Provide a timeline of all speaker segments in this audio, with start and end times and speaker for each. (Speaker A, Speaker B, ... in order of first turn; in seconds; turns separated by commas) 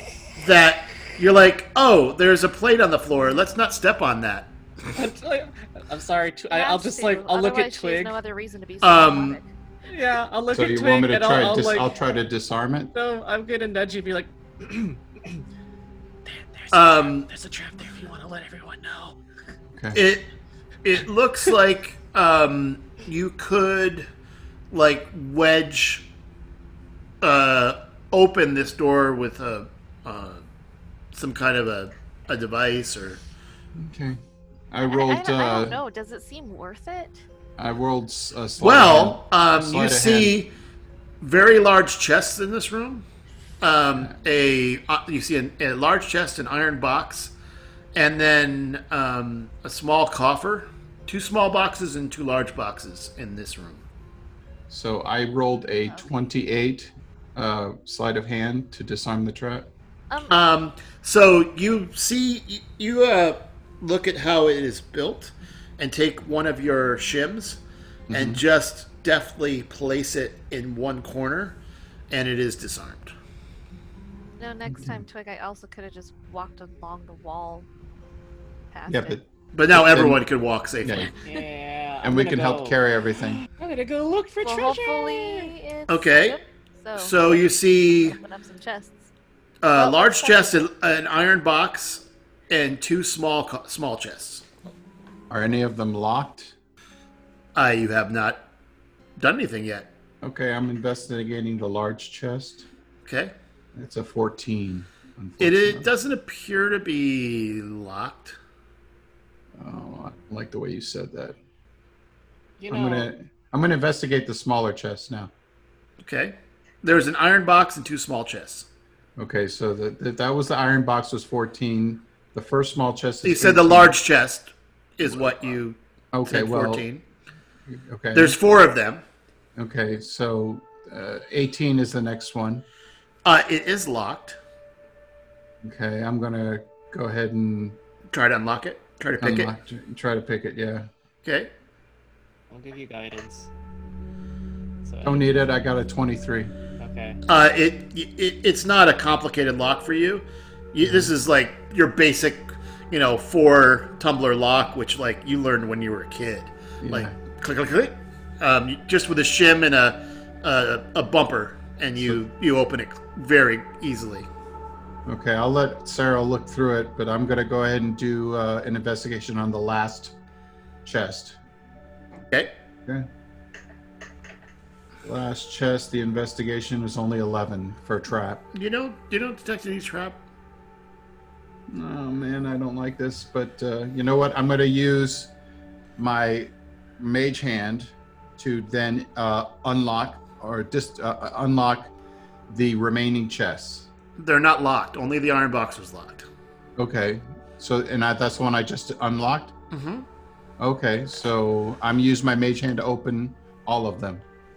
Speaker A: 0.3-4.5, Speaker B: 4.9-8.2, Speaker C: 6.5-9.5, Speaker A: 8.8-9.4, Speaker B: 9.9-11.9, Speaker D: 10.5-12.9, Speaker B: 12.9-15.4, Speaker B: 16.2-19.2, Speaker A: 16.7-17.3, Speaker D: 19.7-20.0, Speaker A: 19.9-20.3, Speaker A: 20.8-24.1, Speaker A: 24.7-26.1, Speaker A: 27.2-30.4, Speaker A: 31.1-33.2, Speaker D: 33.7-34.2, Speaker D: 34.7-35.8, Speaker C: 34.9-37.2, Speaker D: 37.6-40.4, Speaker A: 38.6-40.5, Speaker A: 41.2-43.0, Speaker A: 43.6-47.3, Speaker A: 47.9-53.8, Speaker D: 54.7-59.7, Speaker A: 60.3-73.1, Speaker D: 68.1-68.4, Speaker C: 74.4-77.7, Speaker D: 74.7-75.0, Speaker C: 78.7-79.2, Speaker D: 78.9-80.2, Speaker A: 79.5-81.1, Speaker D: 80.8-81.1, Speaker B: 81.2-85.5, Speaker D: 82.0-83.4, Speaker C: 84.4-89.1, Speaker A: 85.9-86.4, Speaker A: 87.0-88.2, Speaker A: 89.6-94.4, Speaker C: 89.7-90.6, Speaker D: 95.3-96.5, Speaker A: 97.5-98.4, Speaker A: 99.2-99.9, Speaker D: 100.2-102.7, Speaker A: 103.0-103.3, Speaker D: 103.7-105.9, Speaker A: 105.4-108.4, Speaker D: 109.5-111.4, Speaker B: 112.6-113.1, Speaker D: 112.7-115.3, Speaker A: 116.0-118.7, Speaker D: 119.2-124.0, Speaker A: 123.2-127.0, Speaker D: 125.0-126.8, Speaker D: 127.7-128.4, Speaker A: 128.1-129.0, Speaker D: 129.6-132.6, Speaker A: 133.2-134.4, Speaker D: 135.6-137.8, Speaker A: 138.1-139.5, Speaker D: 139.2-140.9, Speaker A: 141.2-141.5, Speaker B: 142.5-143.5, Speaker B: 144.8-145.3, Speaker D: 145.0-146.5, Speaker B: 146.8-147.2, Speaker A: 147.3-164.3, Speaker D: 150.8-151.1, Speaker D: 156.8-157.2, Speaker D: 165.1-170.1, Speaker D: 170.8-171.4, Speaker D: 175.0-178.4, Speaker A: 178.5-180.2, Speaker D: 181.7-185.3, Speaker D: 185.9-191.9, Speaker D: 192.5-193.9, Speaker A: 194.2-196.2, Speaker D: 196.8-199.5, Speaker A: 199.7-200.1, Speaker D: 200.6-204.2